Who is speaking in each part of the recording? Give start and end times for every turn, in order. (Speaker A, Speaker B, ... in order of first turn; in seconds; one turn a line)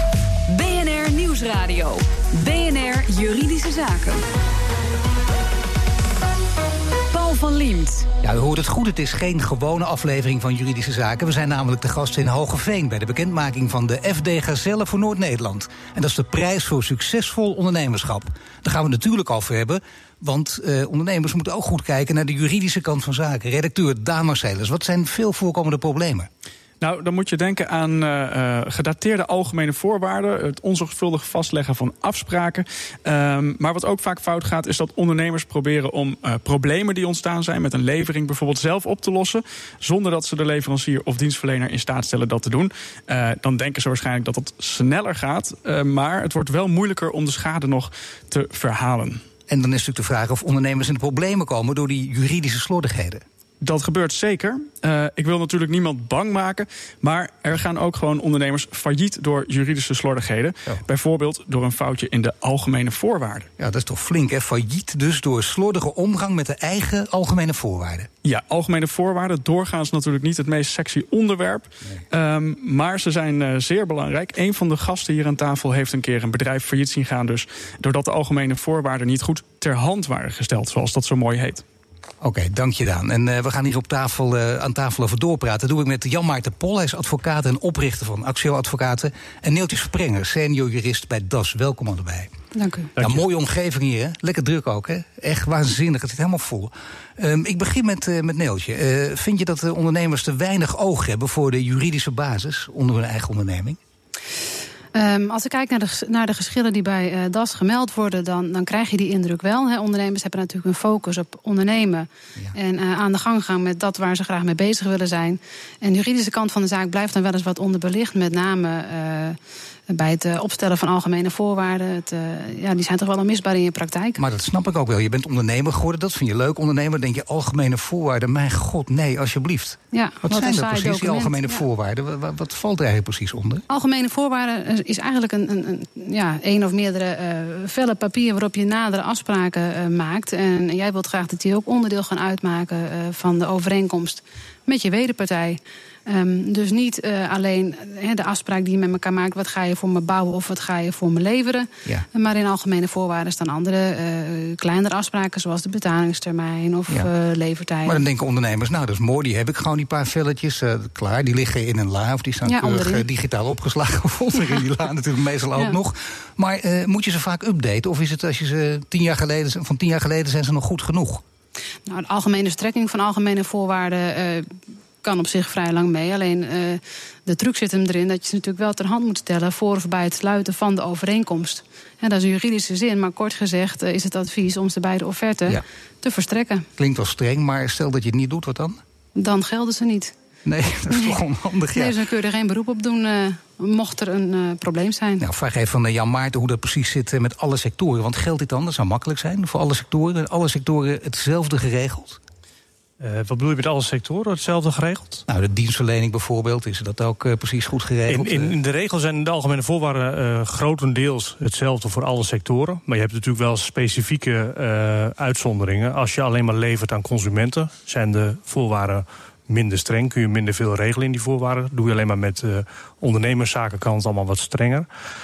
Speaker A: 0.5-4.2
Speaker A: 7.1-8.1
Speaker B: 8.2-26.3
Speaker C: 26.8-49.2
Speaker B: 49.5-53.2
Speaker C: 53.6-63.5
Speaker B: 63.6-68.1
Speaker C: 68.2-81.6
Speaker B: 82.2-92.3
Speaker D: 92.5-92.9
Speaker B: 93.0-103.8
Speaker D: 104.9-119.4
Speaker D: 119.9-124.2
Speaker B: 124.2-133.6
Speaker D: 129.9-131.6
Speaker D: 133.7-158.0
Speaker B: 157.8-171.2
Speaker D: 162.4-163.1
Speaker D: 171.9-186.7
Speaker B: 186.8-188.8
Speaker D: 189.2-190.1
Speaker B: 190.4-192.0
Speaker D: 191.7-195.2
Speaker B: 195.2-202.2
Speaker E: 203.0-205.2
Speaker B: 205.3-208.5
Speaker E: 208.1-224.9